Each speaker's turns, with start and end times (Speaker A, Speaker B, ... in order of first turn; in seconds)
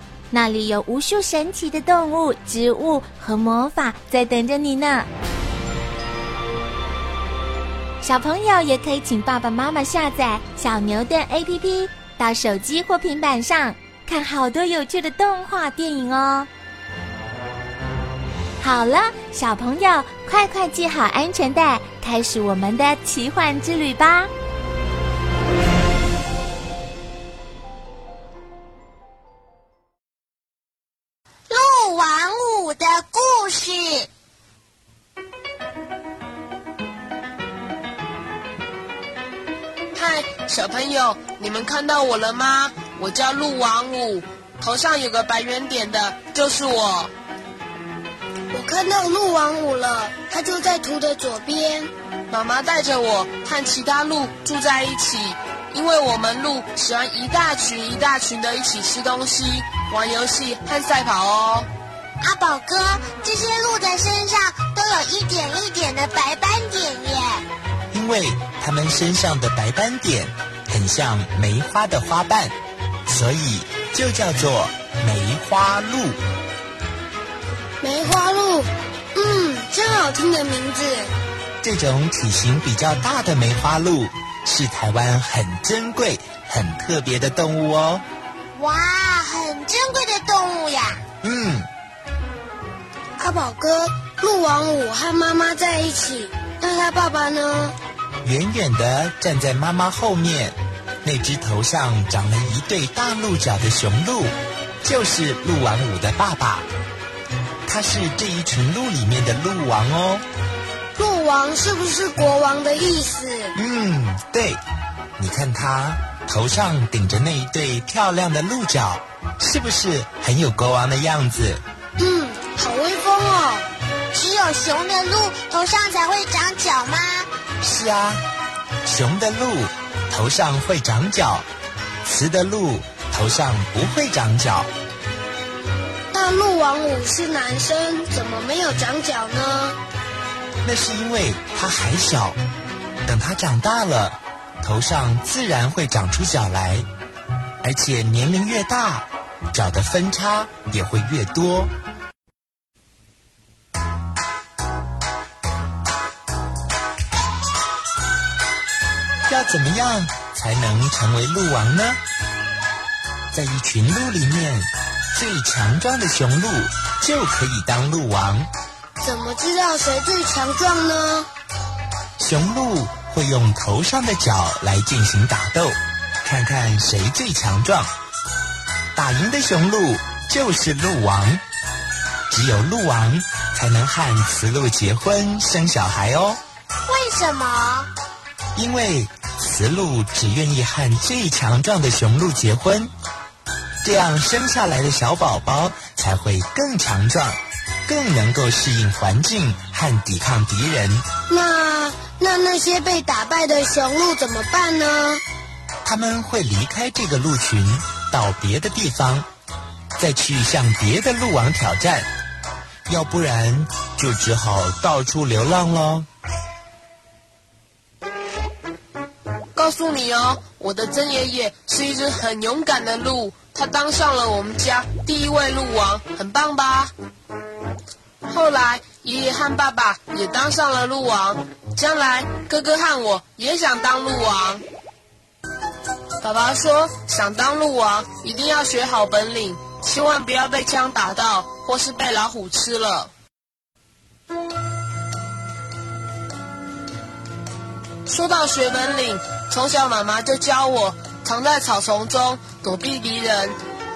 Speaker A: 0.3-5.1, 8.0-16.5, 18.6-24.3
Speaker B: 31.5-34.1, 62.2-67.5, 88.6-91.0, 124.1-127.3, 186.8-187.9
Speaker C: 39.9-47.1, 52.3-61.7, 219.6-226.9, 228.3-234.6, 236.2-243.1, 248.1-253.6
Speaker D: 48.5-51.9, 77.8-81.1, 93.2-97.8, 111.0-113.5, 122.0-123.7, 136.1-139.8, 169.0-171.3, 201.3-205.2
Speaker E: 67.9-72.5, 73.1-76.2, 81.6-88.0, 91.2-91.7, 98.2-106.7, 107.7-110.2, 113.5-114.6, 115.2-121.6, 127.6-128.2, 128.8-131.5, 132.0-134.7, 140.6-142.4, 143.0-146.9, 147.6-151.7, 159.3-162.0, 163.3-168.5, 172.2-177.9, 178.9-181.4, 182.3-186.4, 188.6-192.9, 193.8-201.1, 205.8-209.3, 210.0-212.1, 212.9-216.1